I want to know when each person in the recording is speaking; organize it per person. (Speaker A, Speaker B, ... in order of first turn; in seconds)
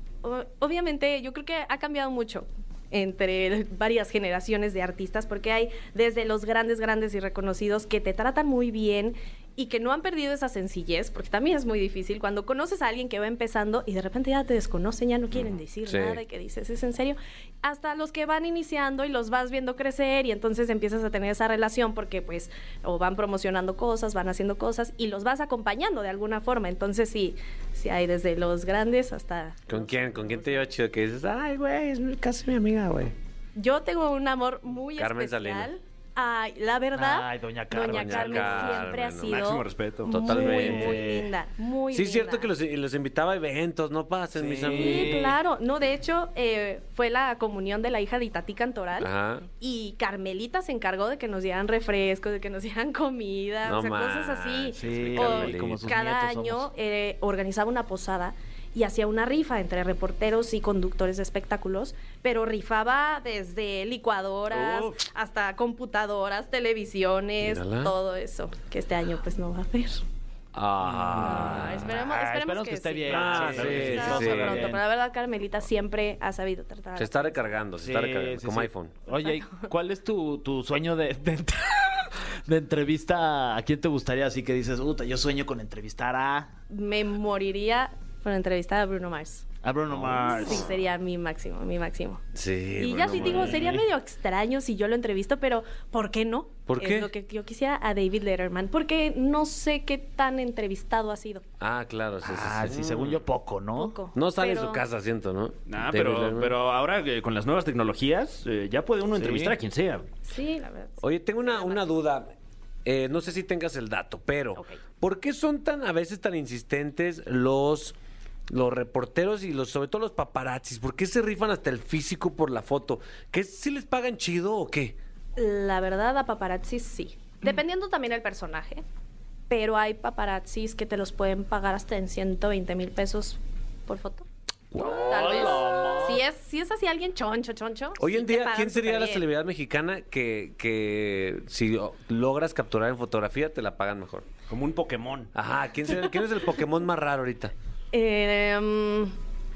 Speaker A: 0.2-30.7, 33.5-42.5, 44.7-70.0, 71.2-77.5, 79.1-79.7, 86.7-89.5, 90.2-92.2, 92.8-101.4, 103.8-104.8, 110.2-111.8, 125.3-128.8, 129.5-134.2, 134.9-139.2, 147.9-149.1
Speaker B: 15.8-16.2, 29.7-33.1, 35.0-35.7, 37.8-39.4, 40.1-41.0, 41.9-45.2, 49.0-49.5, 53.6-55.9, 67.4-67.9, 70.5-71.9, 73.1-74.6, 77.0-78.9, 89.9-90.7, 92.3-93.8, 96.7-97.1, 101.6-103.2, 104.1-106.5, 111.0-112.3, 112.8-118.0, 118.5-125.0, 134.7-135.2, 138.0-144.2, 145.3-147.5
Speaker C: 36.9-39.0, 40.2-41.3, 44.3-45.4, 54.8-56.7, 64.5-65.0, 70.8-74.8, 77.8-86.5, 89.6-90.7, 93.2-93.6, 102.2-104.0, 109.2-109.5, 134.8-136.2
Speaker D: 39.2-40.3, 73.1-74.2, 105.7-110.0, 134.8-135.9, 144.5-145.3